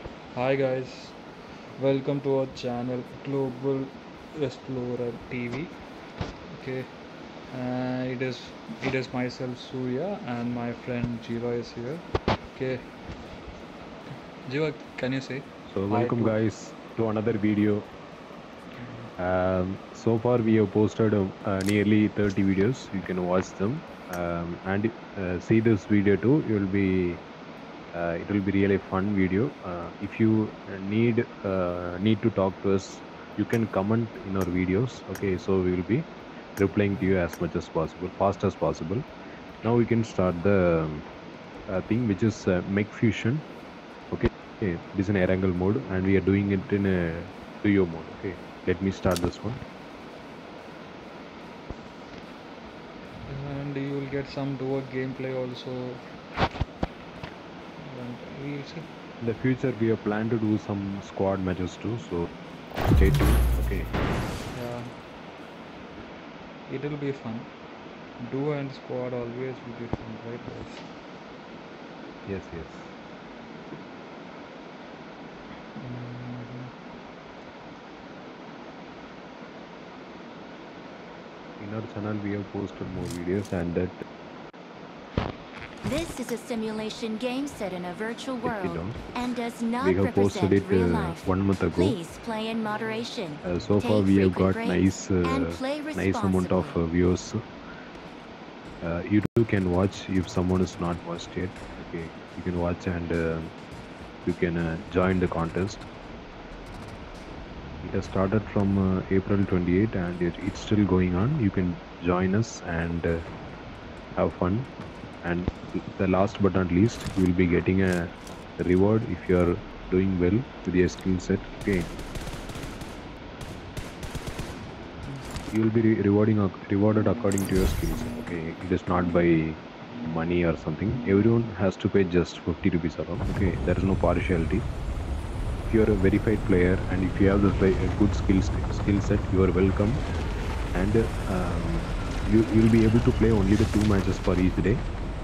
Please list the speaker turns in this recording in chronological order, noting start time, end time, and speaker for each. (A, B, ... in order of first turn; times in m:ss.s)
0:00.3-0:01.2 A
0:01.8-0:05.8 A
0:06.6-0:06.9 A
0:07.5-0:12.9 A
0:14.4-0:16.4 A
0:15.7-0:17.9 B
0:18.8-0:19.1 A
0:19.2-0:27.2 B
0:27.9-0:39.0 B
0:39.6-0:41.0 B
0:41.7-0:43.4 B
0:44.1-0:49.6 B
0:53.3-0:56.0 A
0:57.8-0:58.9 A
0:59.2-1:03.9 B
1:04.5-1:04.9 A
1:06.7-1:07.5 A
1:08.2-1:10.9 A
1:12.2-1:12.9 B
1:15.7-1:16.7 A
1:21.6-1:23.9 B
1:25.8-1:36.8 C
1:28.4-1:32.0 B
1:32.6-1:33.1 A
1:33.4-1:37.4 B
1:38.8-1:43.5 B
1:44.2-1:45.8 B
1:47.8-1:53.2 B
1:54.2-1:54.7 B
1:55.2-2:01.9 B
2:05.5-2:14.7 B
2:15.7-2:20.0 B
2:20.7-2:24.8 B